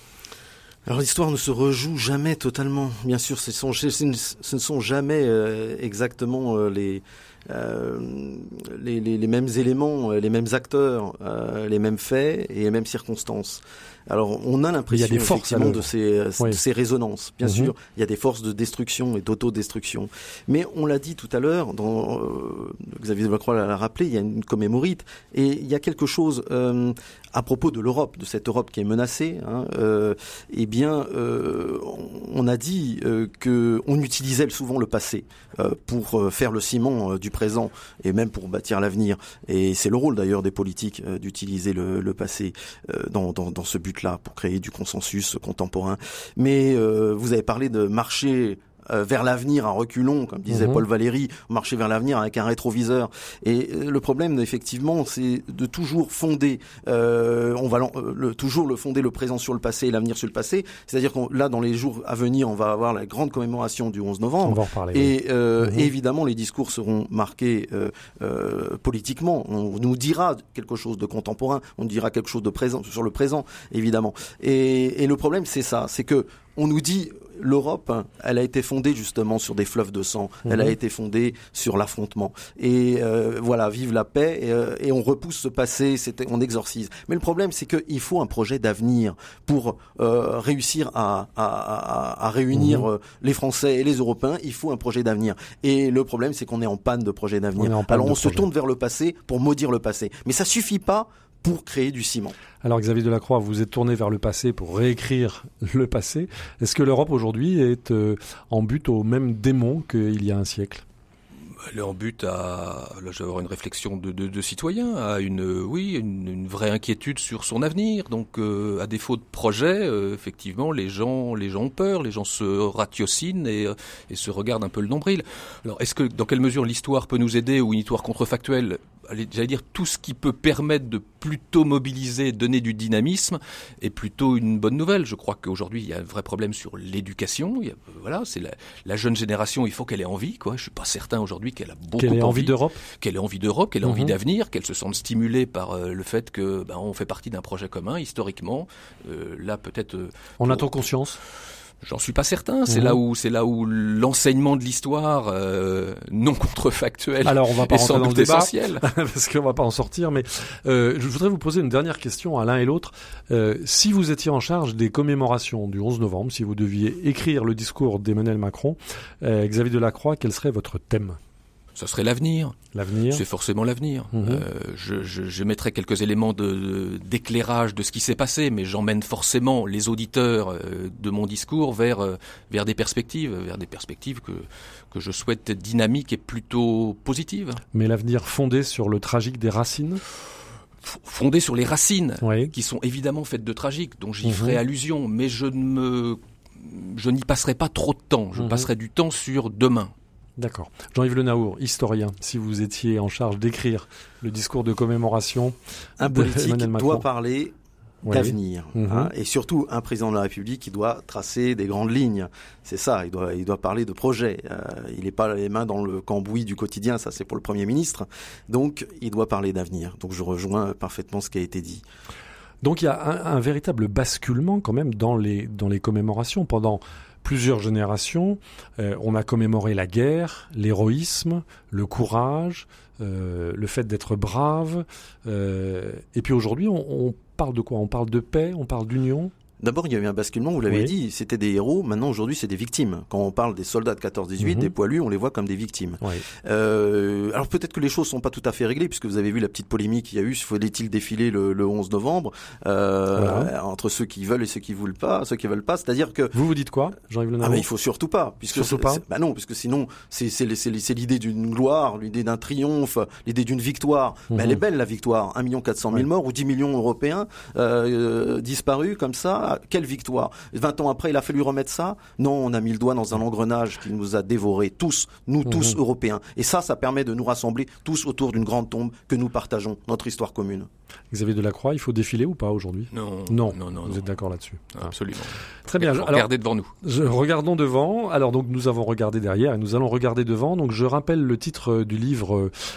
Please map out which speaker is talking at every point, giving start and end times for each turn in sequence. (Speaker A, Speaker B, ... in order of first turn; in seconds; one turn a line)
Speaker A: 0.9-102.4
Speaker B: 14.9-15.9
Speaker B: 17.4-17.7
Speaker B: 50.5-50.8
Speaker B: 64.4-65.9
Speaker B: 80.5-80.7
Speaker B: 92.5-92.9
Speaker B: 97.6-98.5
Speaker B: 102.6-110.8
Speaker C: 111.7-150.9
Speaker B: 142.0-142.8
Speaker B: 143.8-144.1
Speaker B: 150.4-151.2
Speaker C: 151.8-158.8
Speaker B: 152.7-153.0
Speaker B: 157.2-171.2
Speaker C: 171.8-187.6
Speaker B: 172.7-173.2
Speaker B: 174.1-174.4
Speaker B: 187.7-190.0
Speaker C: 190.8-199.9
Speaker B: 192.2-192.5
Speaker B: 194.2-194.6
Speaker B: 198.4-198.7
Speaker B: 200.4-205.6
Speaker A: 206.0-207.6
Speaker B: 206.1-207.1
Speaker B: 208.1-209.1
Speaker A: 208.1-221.8
Speaker B: 222.6-239.3
Speaker A: 239.6-256.4
Speaker B: 244.4-244.7
Speaker B: 253.2-253.5
Speaker B: 256.3-257.7
Speaker A: 257.4-280.7
Speaker B: 258.5-259.0
Speaker B: 264.3-264.6
Speaker B: 275.5-275.8
Speaker B: 281.1-284.9
Speaker C: 282.9-284.1
Speaker C: 284.7-286.7
Speaker B: 285.7-286.3
Speaker B: 286.8-292.5